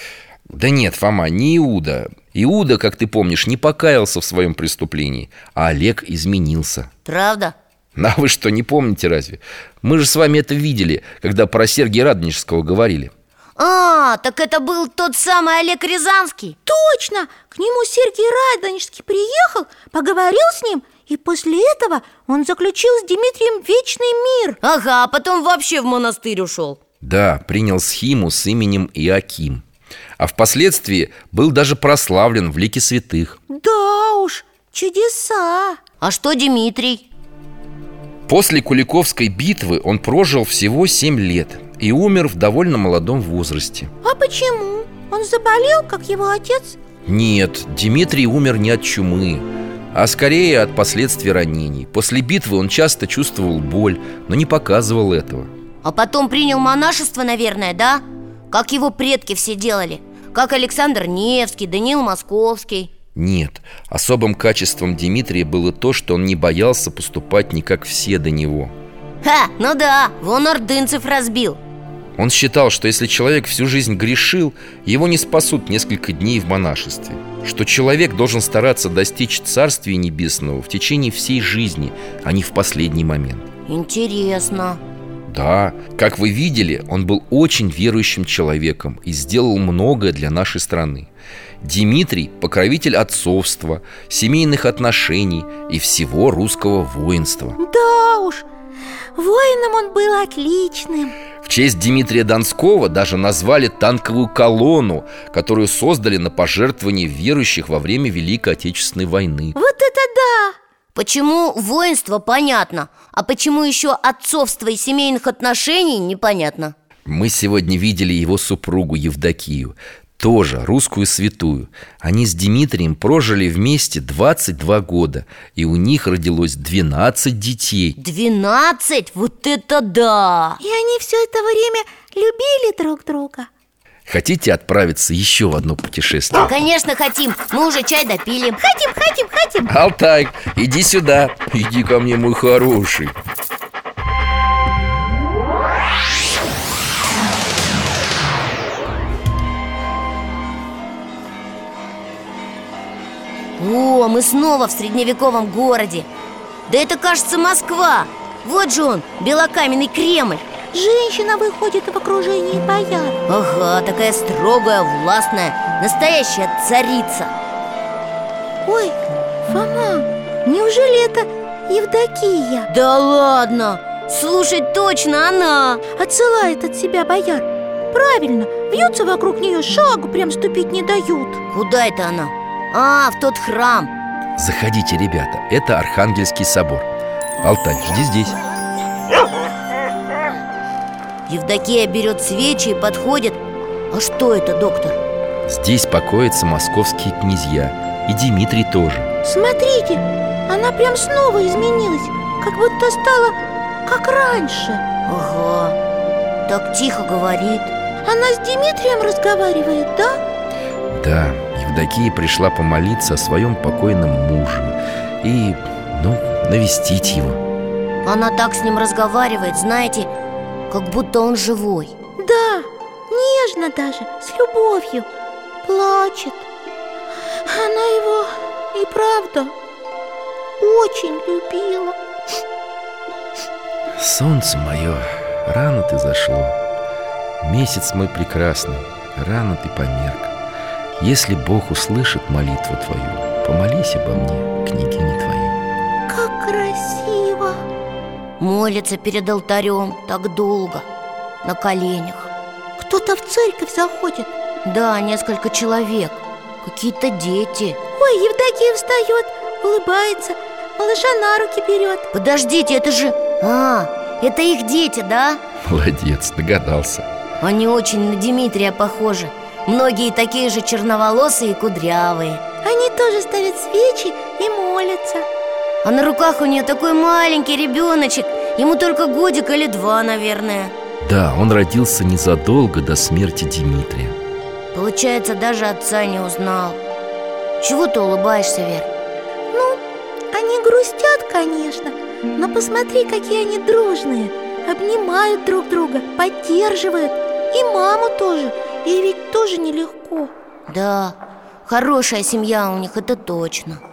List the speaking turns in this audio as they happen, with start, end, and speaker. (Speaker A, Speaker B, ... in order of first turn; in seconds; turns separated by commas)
Speaker A: 0.5-6.9, Speaker B: 7.0-7.5, Speaker A: 8.0-13.1, Speaker B: 13.6-16.6, Speaker C: 16.7-24.6, Speaker B: 24.6-26.8, Speaker A: 27.0-29.6, Speaker A: 30.2-33.4, Speaker C: 33.5-35.8, Speaker B: 36.0-37.0, Speaker A: 38.3-43.9, Speaker C: 44.0-46.8, Speaker A: 47.0-55.5, Speaker B: 55.8-62.9, Speaker A: 63.1-68.7, Speaker B: 69.2-71.6, Speaker A: 72.2-83.5, Speaker B: 83.7-84.8, Speaker A: 85.3-91.1, Speaker A: 91.6-97.6, Speaker C: 97.6-98.4, Speaker C: 99.2-101.1, Speaker A: 101.4-109.6, Speaker C: 109.5-110.5, Speaker B: 110.9-116.7, Speaker A: 117.0-128.0, Speaker B: 128.0-130.6, Speaker C: 130.6-133.5, Speaker A: 134.1-136.5, Speaker B: 136.5-138.6, Speaker C: 138.6-139.7, Speaker A: 139.7-143.1, Speaker B: 153.6-156.1, Speaker B: 156.7-160.4, Speaker C: 160.7-163.2, Speaker B: 163.3-167.3, Speaker C: 168.6-169.0, Speaker C: 169.5-172.7, Speaker B: 172.7-175.8, Speaker C: 175.9-181.4, Speaker B: 181.5-183.9, Speaker A: 184.4-186.9, Speaker A: 187.4-188.4, Speaker B: 191.3-193.4, Speaker B: 193.9-195.0, Speaker A: 195.5-199.1, Speaker C: 199.2-204.8, Speaker B: 205.1-205.8, Speaker B: 206.5-207.7, Speaker C: 208.0-210.2, Speaker A: 210.9-217.4, Speaker B: 218.0-220.1, Speaker B: 220.7-221.9, Speaker C: 222.2-225.1, Speaker C: 225.6-226.4, Speaker C: 227.4-229.5, Speaker C: 230.6-231.9, Speaker A: 233.9-236.6, Speaker A: 237.4-240.3, Speaker A: 241.0-245.6, Speaker C: 246.1-247.6, Speaker B: 248.4-250.8, Speaker B: 251.4-252.3, Speaker C: 252.8-254.3, Speaker B: 254.6-257.8, Speaker C: 258.0-262.1, Speaker B: 262.1-265.4, Speaker A: 265.6-267.1, Speaker B: 267.4-272.4, Speaker C: 272.6-275.2, Speaker B: 275.8-280.7, Speaker A: 281.0-284.1, Speaker B: 284.7-286.8, Speaker B: 287.6-288.9, Speaker C: 289.5-289.8, Speaker C: 290.3-300.3, Speaker B: 300.7-303.8